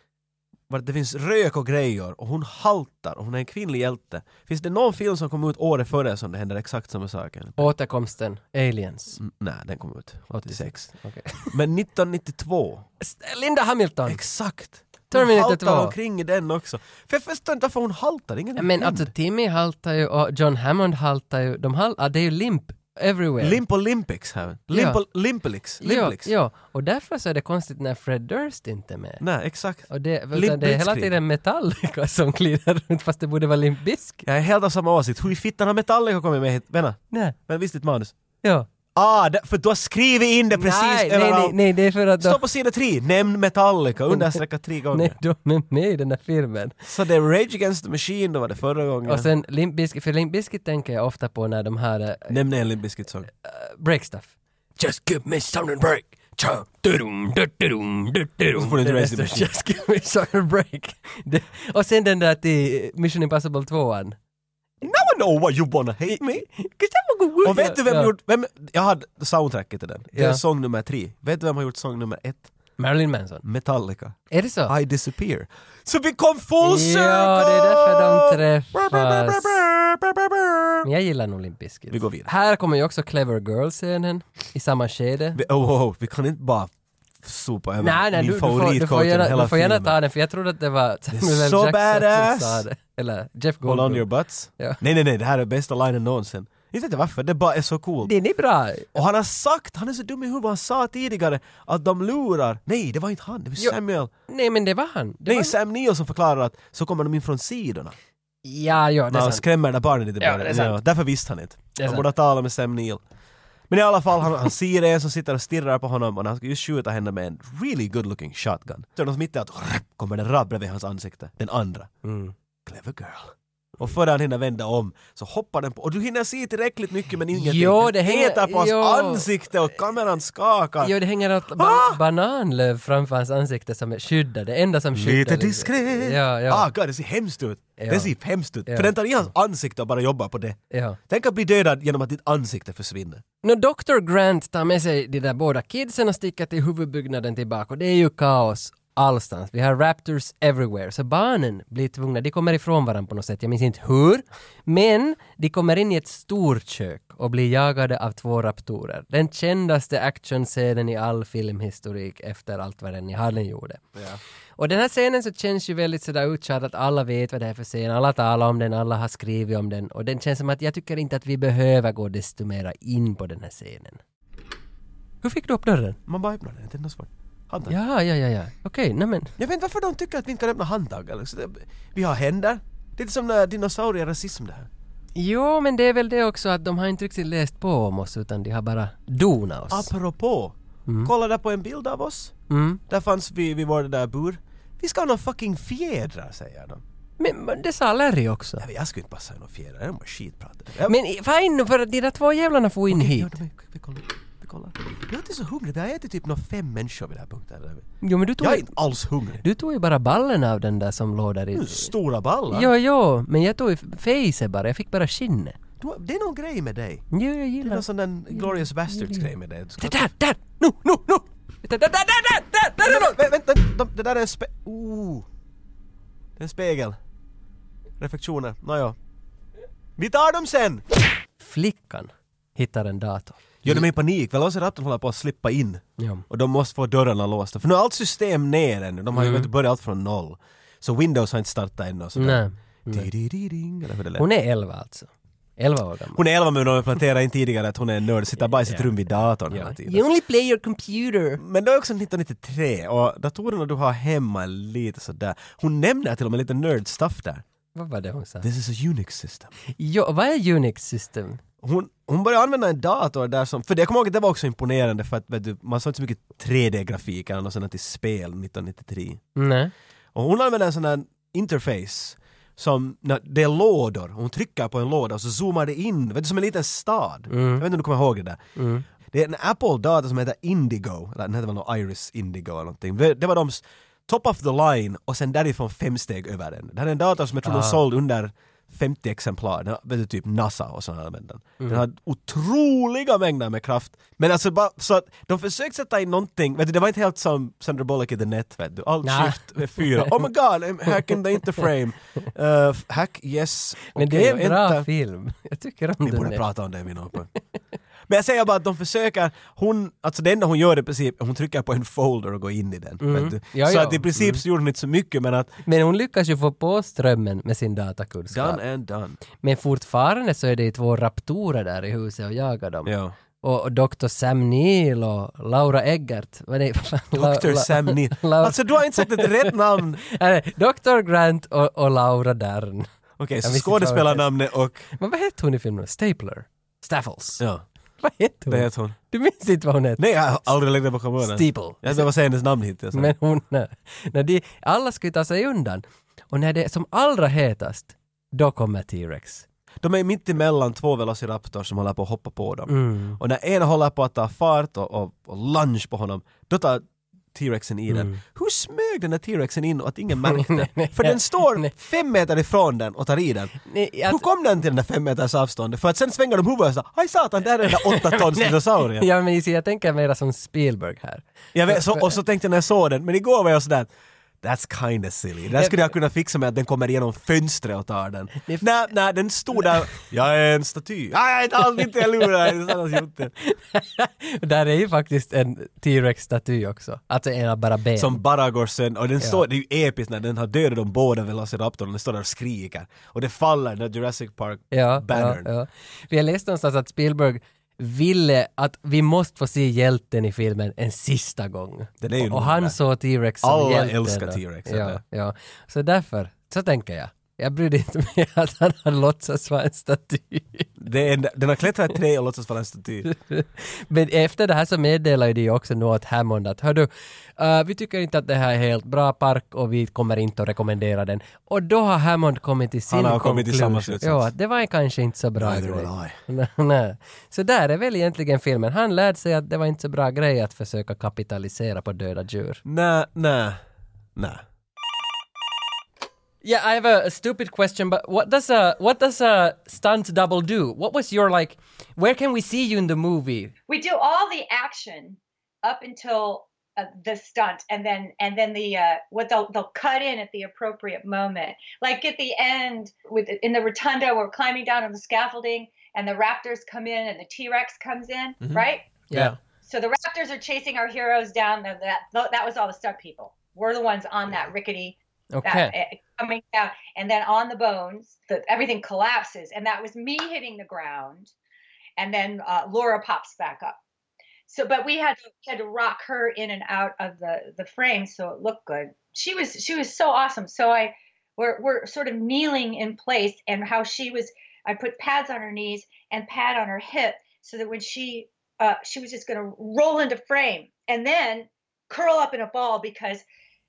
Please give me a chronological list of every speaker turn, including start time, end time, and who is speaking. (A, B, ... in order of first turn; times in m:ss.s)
0:00.7-0:07.7 A
0:07.6-0:09.2 B
0:09.2-0:10.9 A
0:10.4-0:11.6 B
0:11.5-0:12.8 A
0:13.0-0:14.2 B
0:14.1-0:19.1 A
0:15.1-0:16.0 B
0:18.6-0:23.6 B
0:23.4-0:26.3 A
0:24.7-0:25.0 B
0:25.8-0:29.2 B
0:29.2-0:31.1 A
0:29.9-0:34.2 B
0:34.2-0:38.1 A
0:37.1-0:37.4 B
0:38.4-0:38.7 B
0:38.9-0:41.6 A
0:40.5-0:42.4 B
0:42.2-0:45.2 A
0:44.1-0:44.4 B
0:44.9-0:46.8 B
0:46.8-0:49.3 A
0:49.0-0:52.4 B
0:52.3-0:53.3 A
0:53.3-1:04.2 B
0:58.5-0:59.5 A
1:04.8-1:06.4 A
1:06.1-1:08.1 B
1:07.4-1:12.5 A
1:10.1-1:10.4 B
1:12.8-1:13.4 B
1:13.4-1:20.8 A
1:14.3-1:14.7 B
1:16.6-1:19.6 B
1:20.8-1:25.4 B
1:21.9-1:22.3 A
1:25.3-1:26.7 A
1:27.2-1:30.0 A
1:27.8-1:34.1 B
1:31.1-1:32.6 A
1:33.6-1:38.1 A
1:38.0-1:38.9 B
1:38.9-1:44.1 A
1:44.3-1:45.6 B
1:45.2-1:47.9 A
1:48.4-1:49.4 B
1:49.1-1:53.0 A
1:50.2-1:50.8 B
1:51.8-1:52.0 B
1:53.7-2:01.9 A
2:02.0-2:02.3 B
2:02.6-2:10.9 A
2:07.3-2:09.3 B
2:10.8-2:16.7 B
2:11.5-2:12.0 A
2:14.9-2:20.6 A
2:17.8-2:18.1 B
2:18.6-2:18.9 B
2:20.7-2:21.0 B
2:21.1-2:23.2 A
2:23.4-2:43.9 B
2:43.9-2:44.2 A
2:44.6-2:54.0 B
2:55.2-2:56.0 B
2:56.1-2:57.7 A
2:57.7-2:59.3 B
2:59.4-3:04.7 A
3:05.2-3:09.9 B
3:09.7-3:12.4 A
3:10.9-3:11.1 B
3:12.5-3:12.8 B
3:12.9-3:16.8 A
3:17.2-3:18.6 B
3:18.6-3:21.0 A
3:20.8-3:23.3 B
3:22.9-3:27.9 A
3:28.0-3:28.8 B
3:28.4-3:29.4 A
3:29.4-3:31.9 B
3:31.5-3:32.7 A
3:32.5-3:35.6 B
3:35.8-3:37.1 A
3:37.1-3:43.3 B
3:37.6-3:40.1 A
3:42.8-3:45.3 A
3:46.4-3:47.0 A
3:48.0-3:49.0 A
3:50.0-3:50.8 A
3:51.4-3:53.8 B
3:53.6-4:04.3 A
3:56.0-3:56.2 B
3:59.1-3:59.5 B
4:02.2-4:03.1 B
4:04.2-4:06.2 B
4:06.1-4:10.0 A
4:09.5-4:11.4 B
4:11.4-4:17.4 A
4:17.7-4:18.4 B
4:18.4-4:19.5 A
4:19.7-4:21.4 B
4:21.6-4:29.2 A
4:29.3-4:29.7 B
4:30.1-4:38.4 A
4:37.3-4:37.6 B
4:38.6-4:38.8 B
4:39.1-5:04.9 A
4:47.4-4:47.8 B
4:59.0-5:00.2 B
5:00.9-5:01.6 B
5:03.9-5:06.4 B
5:06.0-5:07.3 A
5:08.1-5:15.5 A
5:13.0-5:14.4 B
5:15.6-5:18.6 B
5:18.3-5:19.2 A
5:19.3-5:32.9 B
5:22.8-5:23.2 A
5:27.1-5:30.0 A
5:33.2-5:34.9 A
5:33.4-5:34.3 B
5:34.9-5:37.4 B
5:38.0-5:40.0 B
5:38.5-5:39.0 A
5:40.0-5:43.1 A
5:41.2-5:42.1 B
5:42.9-5:49.4 B
5:49.8-6:09.1 A
5:52.7-5:53.2 B
5:57.9-5:58.2 B
6:00.2-6:01.7 B
6:03.6-6:04.2 B
6:07.6-6:12.1 B
6:11.5-6:13.9 A
6:14.4-6:23.3 A
6:19.6-6:19.8 B
6:21.6-6:22.8 B
6:23.4-6:28.2 B
6:28.0-6:35.5 A
6:29.2-6:29.4 B
6:34.7-6:50.7 B
6:42.0-6:42.8 A
6:43.4-6:45.0 A
6:50.8-6:53.1 A
6:53.0-7:12.6 B
7:02.9-7:04.3 A
7:05.4-7:06.2 A
7:12.6-7:13.6 A
7:14.2-7:14.4 A
7:16.4-7:23.5 B
7:23.7-7:39.1 C
7:38.4-7:39.4 A
7:39.1-7:39.3 B
7:39.6-7:51.3 C
7:45.3-7:45.7 B
7:52.0-7:53.8 C
7:54.5-8:13.2 C